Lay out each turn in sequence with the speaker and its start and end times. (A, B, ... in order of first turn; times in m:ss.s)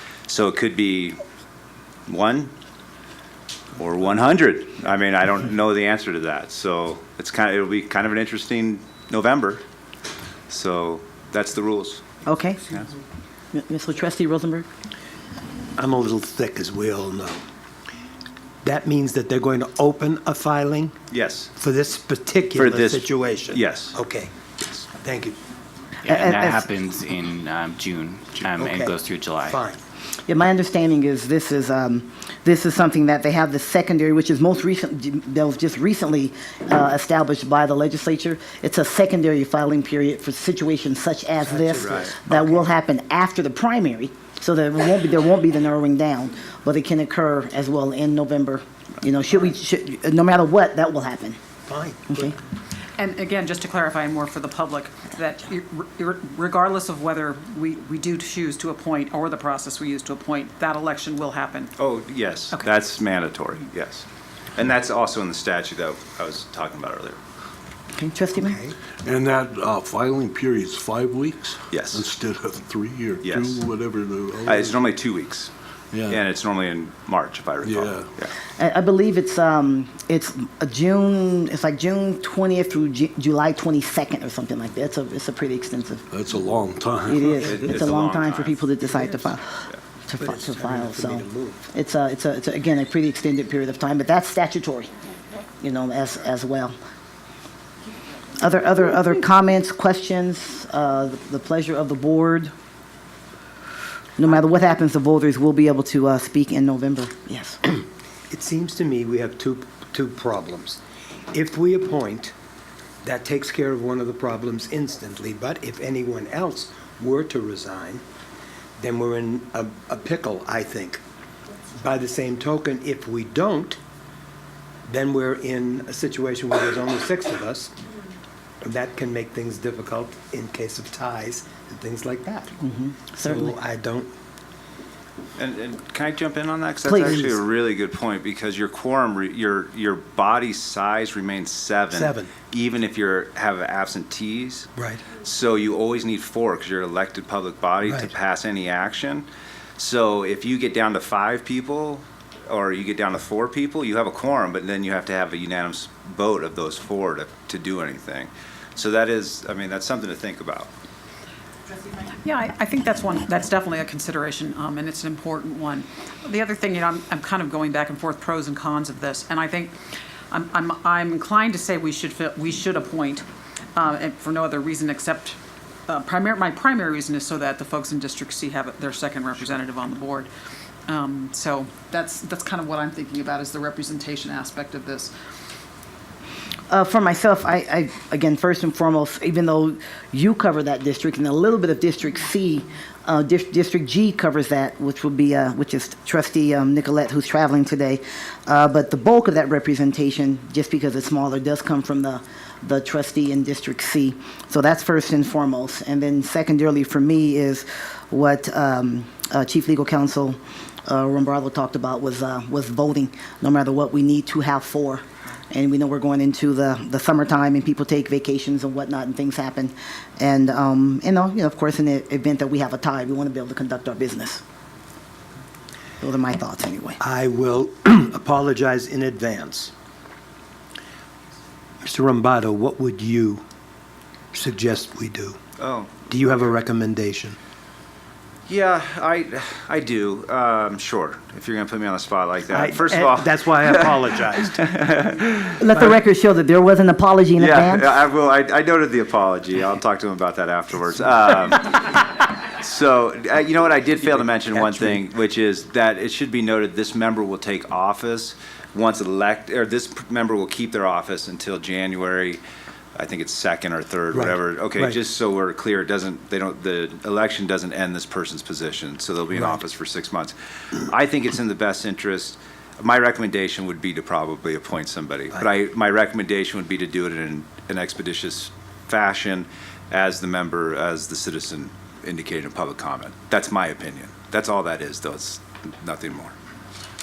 0:00.3-0:01.2 A
0:02.1-0:02.5 A
0:03.8-0:09.6 A
0:10.5-0:12.0 A
0:12.2-0:12.6 B
0:13.5-0:14.6 B
0:15.8-0:17.4 C
0:18.6-0:20.9 C
0:21.1-0:21.5 A
0:21.6-0:25.4 C
0:22.6-0:24.0 A
0:26.0-0:29.6 D
0:26.0-0:26.6 B
0:28.5-0:29.8 C
0:30.3-0:51.4 B
0:41.4-0:42.6 C
0:41.8-0:42.2 A
0:51.7-0:52.3 C
0:52.1-0:52.3 B
0:53.0-1:01.7 E
1:01.8-1:07.2 A
1:07.9-1:08.6 B
1:08.4-1:08.7 C
1:09.0-1:14.8 F
1:11.7-1:12.1 A
1:13.2-1:13.6 A
1:14.4-1:15.5 A
1:15.9-1:16.2 F
1:16.1-1:18.3 A
1:17.6-1:18.1 F
1:18.6-1:26.0 B
1:26.1-1:27.8 F
1:27.1-1:34.9 B
1:27.4-1:28.7 A
1:30.2-1:31.6 C
1:35.6-1:36.7 B
1:38.4-1:42.5 B
1:44.2-1:47.6 B
1:48.3-1:50.8 C
1:51.3-1:52.3 C
1:53.0-1:58.0 C
1:58.8-2:01.0 C
2:01.8-2:03.8 C
2:04.9-2:07.7 C
2:08.6-2:12.6 C
2:12.6-2:13.5 B
2:13.2-2:14.1 C
2:15.4-2:29.2 A
2:16.8-2:17.4 B
2:21.9-2:22.3 C
2:24.8-2:25.0 C
2:29.8-2:40.7 A
2:42.0-2:49.8 E
2:50.3-3:00.3 E
3:00.9-3:05.1 E
3:06.7-3:44.4 B
3:46.0-3:47.0 B
3:47.0-3:49.7 C
3:51.8-3:53.4 C
3:54.3-3:55.4 C
3:55.6-3:55.9 A
3:56.1-3:57.4 C
3:58.5-4:03.9 A
4:02.5-4:04.8 C
4:04.5-4:05.5 A
4:05.6-4:07.9 B
4:07.4-4:22.4 A
4:14.1-4:15.0 C
4:23.0-4:46.3 A
4:24.1-4:25.0 C